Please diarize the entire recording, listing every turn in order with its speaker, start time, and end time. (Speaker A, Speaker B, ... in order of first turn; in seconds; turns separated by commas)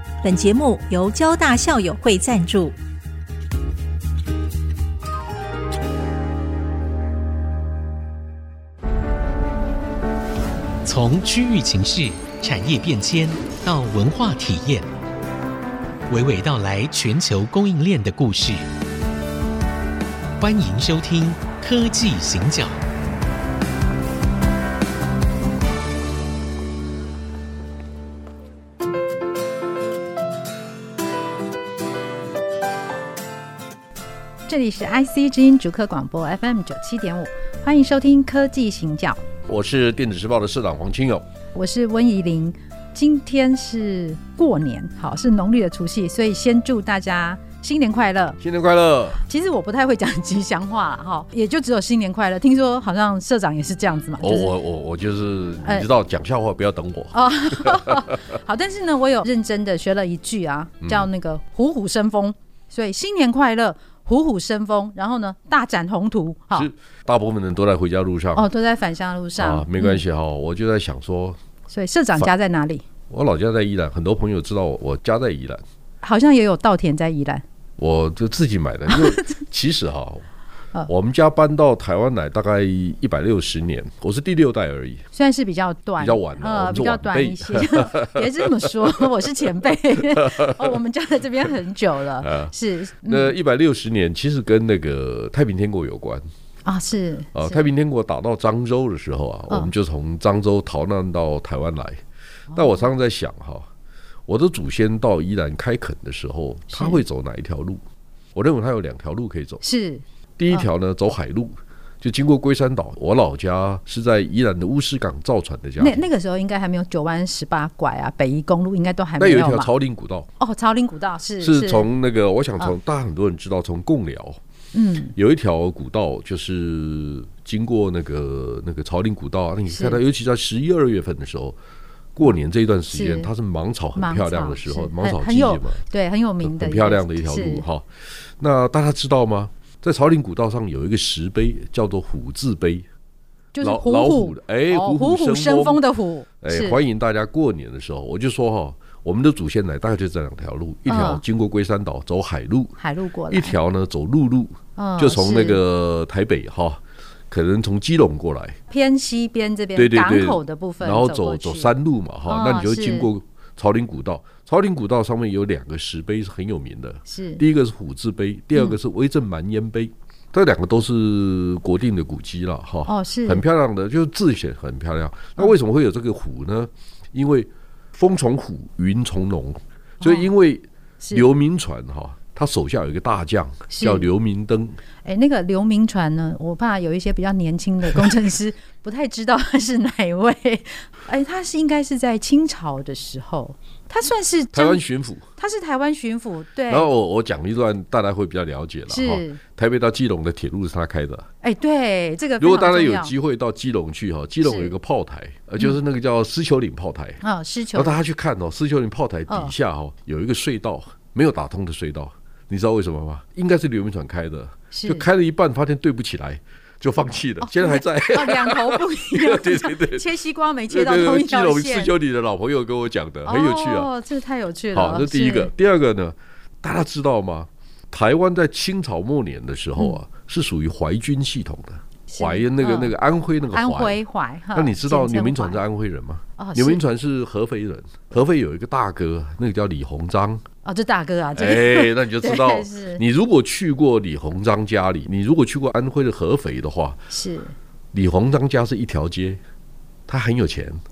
Speaker A: 0.2-2.8, Speaker B: 10.8-14.9, Speaker B: 16.1-18.6, Speaker B: 20.4-22.8, Speaker C: 34.5-39.2, Speaker D: 39.5-41.2, Speaker C: 41.5-48.4, Speaker D: 48.4-49.2, Speaker C: 49.2-54.6, Speaker D: 54.2-58.1, Speaker C: 55.6-55.9, Speaker C: 57.1-66.7, Speaker D: 66.5-68.5, Speaker C: 68.3-70.0, Speaker D: 69.4-71.4, Speaker C: 71.7-72.8, Speaker D: 73.1-75.6, Speaker C: 76.0-77.4, Speaker D: 77.8-80.3, Speaker C: 78.9-79.2, Speaker D: 80.9-85.0, Speaker C: 85.1-93.4, Speaker D: 86.0-89.1, Speaker D: 90.1-90.8, Speaker D: 92.2-96.2, Speaker C: 96.7-97.7, Speaker D: 97.3-102.0, Speaker C: 102.5-102.9, Speaker D: 102.5-103.7, Speaker D: 104.3-107.8, Speaker C: 106.7-107.0, Speaker D: 108.3-109.6, Speaker C: 109.6-110.7, Speaker D: 110.4-116.1, Speaker C: 115.8-119.7, Speaker D: 119.2-120.3, Speaker C: 120.4-121.9, Speaker D: 121.4-124.4, Speaker C: 124.7-125.2, Speaker D: 125.2-131.6, Speaker C: 129.7-130.0, Speaker D: 132.2-135.8, Speaker C: 132.9-133.3, Speaker C: 133.9-137.7, Speaker D: 136.4-142.9, Speaker C: 143.5-146.8, Speaker D: 143.6-145.8, Speaker D: 146.4-152.8, Speaker C: 150.9-151.2, Speaker C: 152.8-153.6, Speaker D: 153.3-158.6, Speaker C: 154.8-155.6, Speaker C: 158.7-161.7, Speaker D: 159.8-184.8, Speaker C: 162.3-163.1, Speaker C: 167.1-167.4, Speaker C: 172.8-173.4, Speaker C: 180.0-180.3, Speaker C: 181.0-181.3, Speaker C: 183.7-184.1, Speaker C: 185.0-196.9, Speaker D: 194.5-195.3, Speaker D: 196.7-201.3, Speaker C: 198.9-199.4, Speaker C: 201.4-203.1, Speaker D: 202.4-207.2, Speaker C: 204.4-204.7, Speaker C: 207.2-208.0, Speaker D: 207.7-220.1, Speaker C: 209.3-209.6, Speaker C: 214.7-215.1, Speaker C: 217.4-221.9, Speaker D: 220.7-223.9, Speaker C: 223.2-225.5, Speaker D: 224.7-234.0, Speaker C: 232.1-232.9, Speaker C: 233.5-235.6, Speaker D: 234.5-240.4, Speaker C: 236.4-236.8, Speaker C: 240.6-243.0, Speaker D: 241.3-247.1, Speaker C: 247.1-247.6, Speaker D: 247.9-249.4, Speaker D: 250.1-250.8